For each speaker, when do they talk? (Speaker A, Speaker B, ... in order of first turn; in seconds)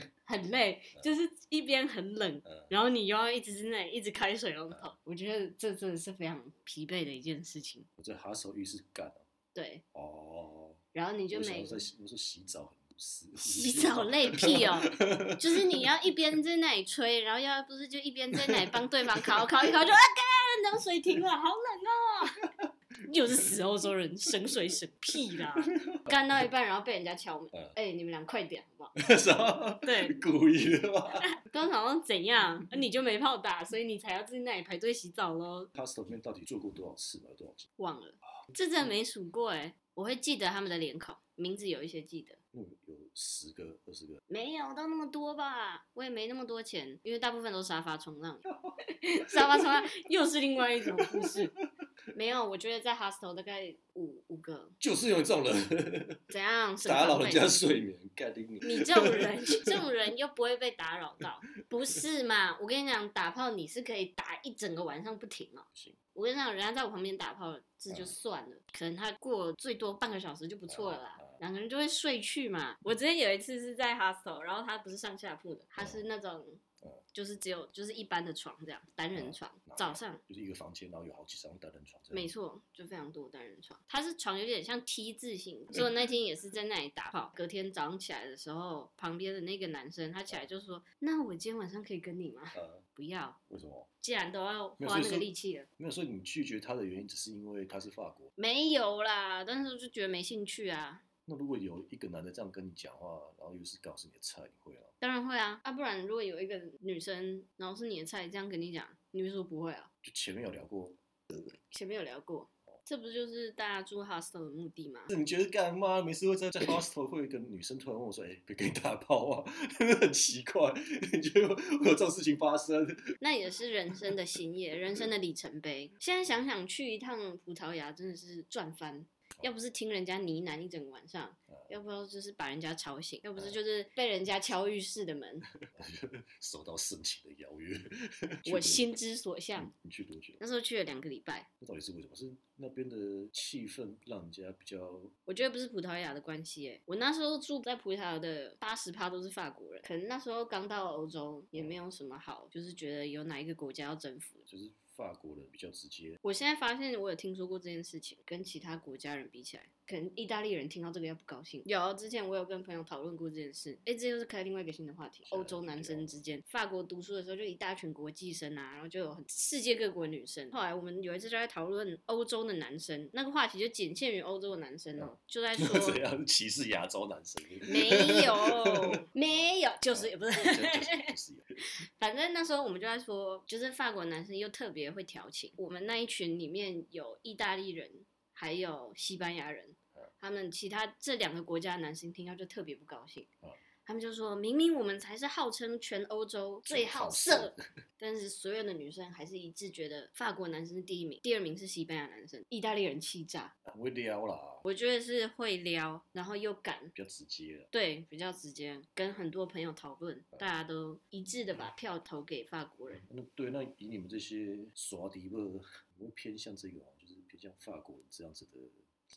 Speaker A: 0.3-7.9, 9.6-9.8, 10.9-11.9, 13.4-22.5, 23.0-29.0, 29.8-30.2, 31.2-35.7, 37.8-42.4, 44.3-48.4, 49.0-51.5, 52.1-54.8, 56.3-57.6, 58.6-76.6, 77.1-80.2, 82.1-93.4, 94.0-95.7, 98.4-101.0, 105.0-109.9, 111.7-115.1, 123.2-135.4, 138.5-139.7, 140.4-141.5, 145.3-154.4, 156.2-176.0, 177.7-193.3, 193.9-203.5, 204.6-206.9, 207.7-213.0
Speaker B: 2.5-2.7, 8.0-9.2, 9.9-15.9, 18.4-19.5, 25.6-26.1, 29.0-31.3, 35.7-37.7, 42.5-44.2, 49.3-49.7, 51.0-51.5, 54.8-56.3, 56.8-59.8, 67.9-68.2, 70.7-71.4, 75.8-76.0, 79.1-82.3, 92.5-92.8, 93.5-93.9, 94.8-98.3, 101.3-104.9, 110.0-111.0, 115.1-123.2, 135.6-138.9, 139.6-140.4, 141.6-145.1, 154.5-156.2, 165.3-166.2, 175.0-178.9, 179.9-181.7, 196.7-197.7, 203.7-204.7, 206.9-207.7, 212.9-218.8